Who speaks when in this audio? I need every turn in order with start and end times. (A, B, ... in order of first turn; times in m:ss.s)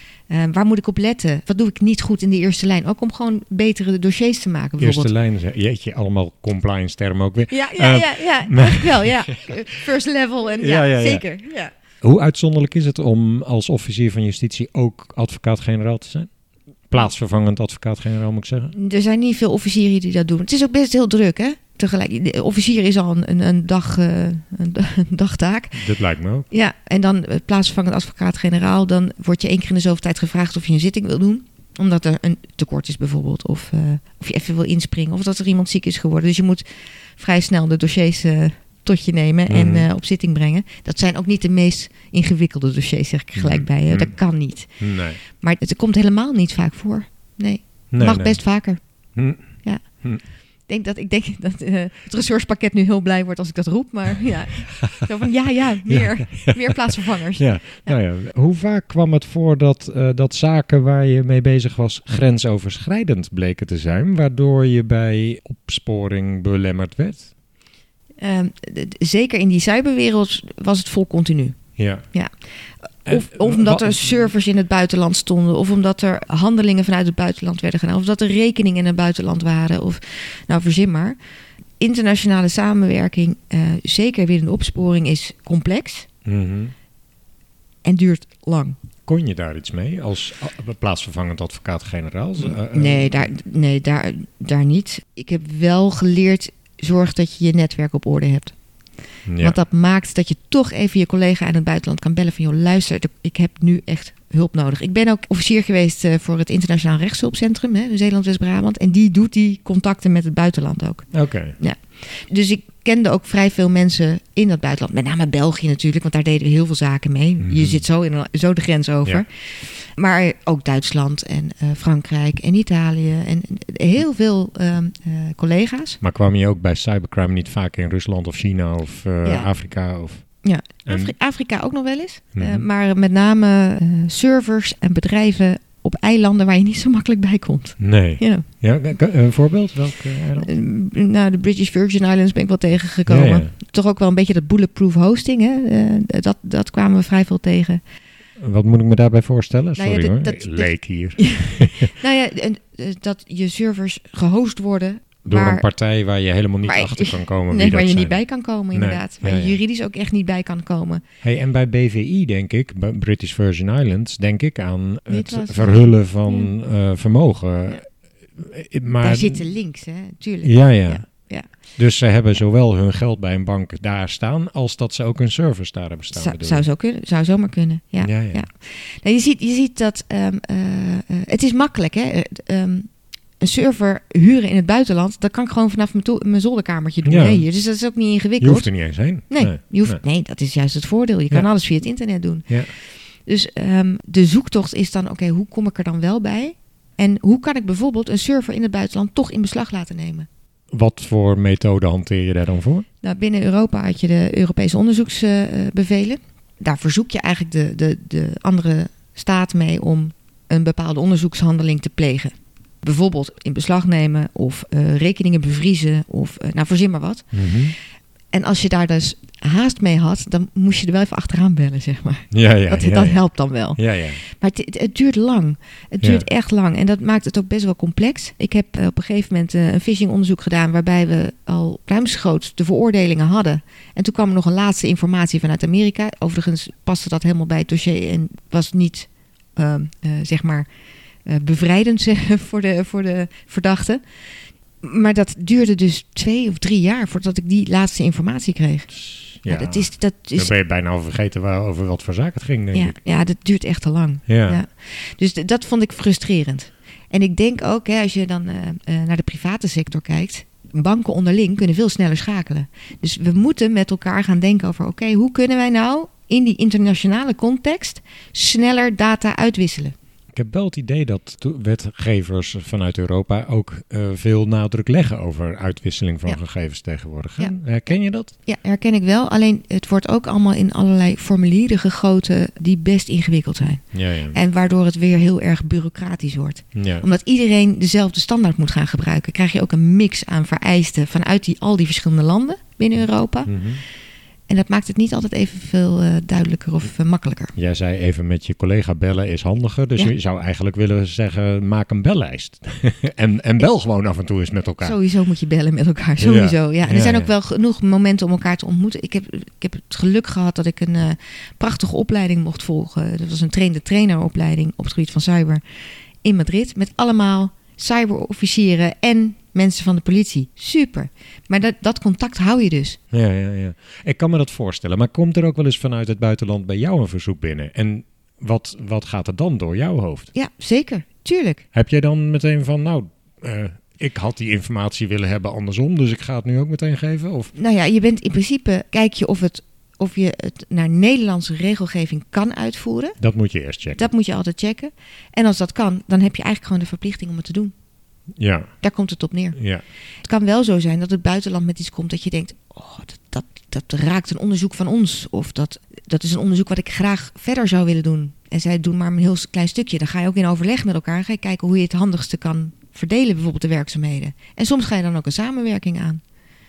0:00.3-0:05.1 A
0:04.8-0:09.6 B
0:07.5-0:11.7 A
0:10.6-0:11.3 B
0:12.0-0:16.3 B
0:16.9-0:18.7 B
0:18.7-0:25.9 A
0:25.8-0:26.5 B
0:26.5-0:48.8 A
0:39.5-0:39.9 B
0:43.4-0:44.2 B
0:44.8-0:45.2 B
0:47.9-0:48.4 B
0:49.2-0:50.2 B
0:49.6-0:58.0 A
0:55.9-0:56.7 B
0:57.4-1:07.3 B
1:08.2-1:11.6 A
1:11.8-1:12.1 B
1:12.1-1:21.2 A
1:13.1-1:14.3 B
1:21.8-1:26.1 A
1:26.2-1:26.7 B
1:27.8-1:28.8 A
1:29.1-1:33.3 B
1:32.4-1:38.6 A
1:39.3-1:39.6 B
1:39.4-2:06.0 A
1:51.1-1:51.6 B
1:57.4-1:57.8 B
2:06.0-2:10.3 B
2:09.2-2:09.5 A
2:10.4-2:18.5 A
2:10.9-2:11.1 B
2:12.4-2:12.7 B
2:17.8-2:20.5 B
2:20.4-2:27.8 A
2:23.1-2:23.5 B
2:28.4-2:31.9 B
2:29.8-2:35.7 A
2:35.3-2:38.2 B
2:36.6-2:41.0 A
2:38.7-2:39.6 B
2:41.2-2:49.5 B
2:45.1-2:46.5 A
2:49.0-2:51.5 A
2:50.4-2:51.1 B
2:51.8-2:56.6 B
2:56.1-3:20.3 A
2:58.0-2:58.5 B
3:07.0-3:07.5 B
3:08.4-3:10.0 B
3:20.7-3:22.8 B
3:23.0-3:37.3 A
3:37.3-3:37.8 B
3:38.3-4:00.7 A
3:42.3-3:43.2 B
3:43.8-3:44.2 B
4:01.2-4:04.0 A
4:04.8-4:10.5 A
4:09.0-4:13.1 B
4:12.7-4:30.0 A
4:14.3-4:14.6 B
4:30.3-4:38.3 B
4:38.4-4:53.6 A
4:43.9-4:44.4 B
4:46.8-4:47.0 B
4:53.5-4:53.8 B
4:54.5-4:57.6 A
4:57.6-5:05.0 B
5:04.8-5:15.6 A
5:06.2-5:07.3 B
5:16.2-5:23.0 A
5:23.1-5:30.3 B
5:30.3-5:31.6 A
5:31.7-5:37.5 B
5:37.6-5:43.2 A
5:43.2-5:44.0 B
5:44.0-5:47.7 A
5:48.4-5:48.7 B
5:48.8-5:49.6 A
5:49.6-5:49.8 B
5:50.2-6:06.2 A